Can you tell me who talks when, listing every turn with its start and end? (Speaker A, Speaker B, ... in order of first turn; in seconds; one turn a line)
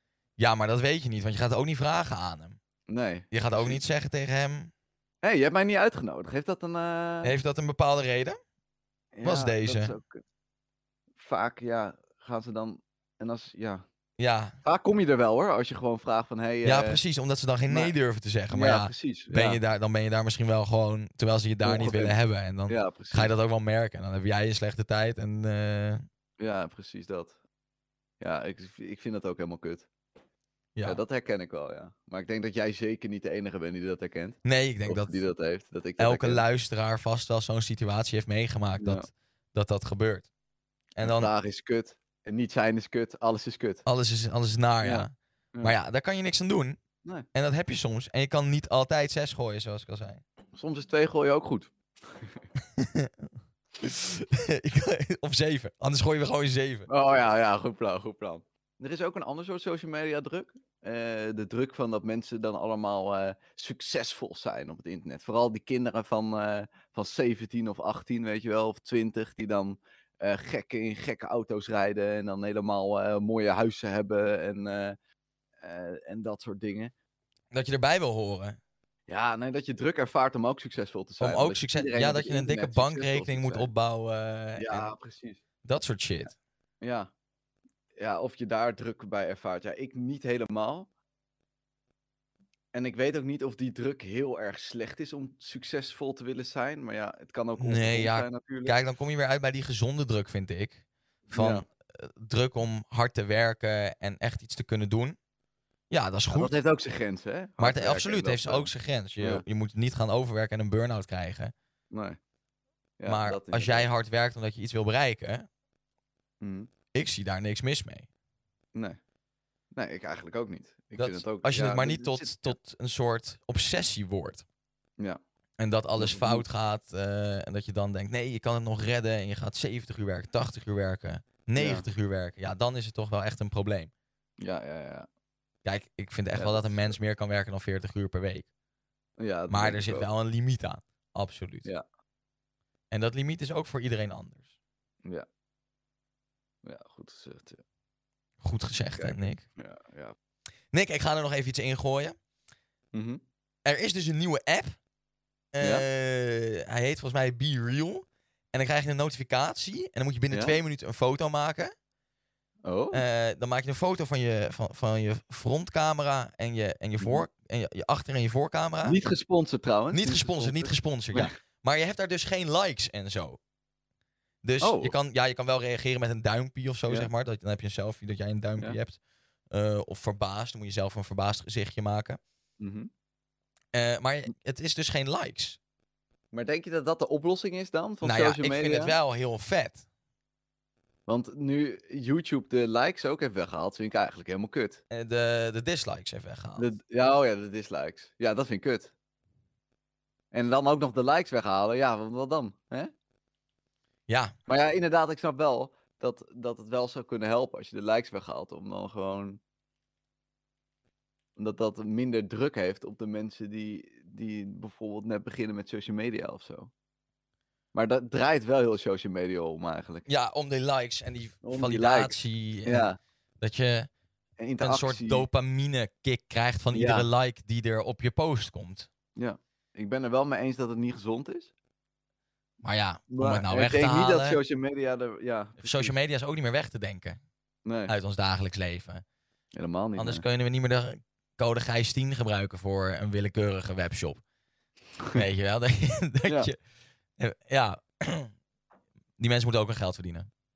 Speaker A: 0.4-2.6
Speaker B: 2.9-3.8
Speaker A: 3.3-4.7
Speaker B: 5.2-7.3
Speaker A: 7.2-8.4
Speaker B: 9.1-10.2
Speaker A: 9.2-9.9
Speaker B: 11.2-13.8
Speaker A: 14.2-14.5
Speaker B: 14.6-17.0
Speaker A: 16.6-26.0
Speaker B: 17.7-17.9
Speaker B: 18.5-19.6
Speaker B: 21.6-23.3
Speaker B: 26.4-27.4
Speaker B: 28.2-29.9
Speaker A: 30.7-31.0
Speaker B: 30.8-36.4
Speaker A: 34.4-35.2
Speaker A: 36.0-40.3
Speaker B: 38.8-39.0
Speaker A: 40.9-41.3
Speaker B: 41.0-43.8
Speaker A: 43.8-46.8
Speaker B: 44.8-45.8
Speaker A: 47.3-50.2
Speaker B: 50.5-52.4
Speaker A: 52.8-53.1
Speaker A: 53.8-56.9
Speaker B: 56.9-75.0
Speaker B: 75.6-76.9
Speaker A: 77.5-78.6
Speaker B: 79.1-83.7
Speaker A: 81.2-84.9
Speaker B: 84.6-85.4
Speaker A: 85.6-86.3
Speaker B: 86.8-87.1
Speaker B: 88.0-90.9
Speaker B: 92.7-98.8
Speaker A: 97.6-105.2
Speaker B: 101.3-101.7
Speaker A: 105.9-106.5
Speaker B: 106.3-109.4
Speaker A: 107.6-111.5
Speaker B: 111.9-112.2
Speaker B: 113.0-113.9
Speaker A: 113.0-115.5
Speaker B: 116.4-116.7
Speaker A: 116.9-118.1
Speaker B: 119.7-122.5
Speaker A: 121.0-124.4
Speaker A: 125.6-133.9
Speaker B: 126.0-126.4
Speaker B: 131.5-131.8
Speaker B: 134.4-135.1
Speaker A: 135.6-138.5
Speaker B: 136.3-137.0
Speaker B: 139.2-140.1
Speaker A: 139.5-141.7
Speaker A: 142.9-144.4
Speaker B: 146.6-147.6
Speaker A: 148.4-149.4
Speaker B: 148.9-150.1
Speaker A: 150.7-152.1
Speaker B: 152.9-153.2
Speaker A: 153.6-154.8
Speaker A: 155.5-161.7
Speaker B: 160.3-160.6
Speaker B: 162.6-163.0
Speaker A: 162.9-169.0
Speaker B: 168.8-171.3
Speaker A: 169.9-173.4
Speaker A: 174.4-179.0
Speaker B: 174.6-174.9
Speaker A: 179.5-182.2
Speaker B: 182.6-182.9
Speaker A: 183.7-185.6
Speaker B: 186.3-189.0
Speaker A: 188.0-189.8
Speaker B: 191.1-194.8
Speaker A: 194.9-196.7
Speaker B: 196.6-198.9
Speaker B: 200.3-202.9
Speaker A: 204.1-204.3
Speaker B: 204.5-209.4
Speaker B: 211.4-216.7
Speaker B: 217.7-220.1
Speaker A: 220.1-222.9
Speaker B: 221.4-223.0
Speaker A: 223.4-223.9
Speaker B: 224.4-225.3
Speaker A: 224.6-228.9
Speaker B: 226.7-227.1
Speaker B: 229.2-231.5
Speaker A: 232.6-234.4
Speaker B: 233.1-235.9
Speaker A: 235.6-237.2
Speaker B: 237.6-237.9
Speaker A: 237.9-239.0
Speaker B: 239.6-240.2
Speaker A: 239.9-244.2
Speaker A: 245.1-246.6
Speaker A: 247.2-248.3
Speaker A: 249.2-250.3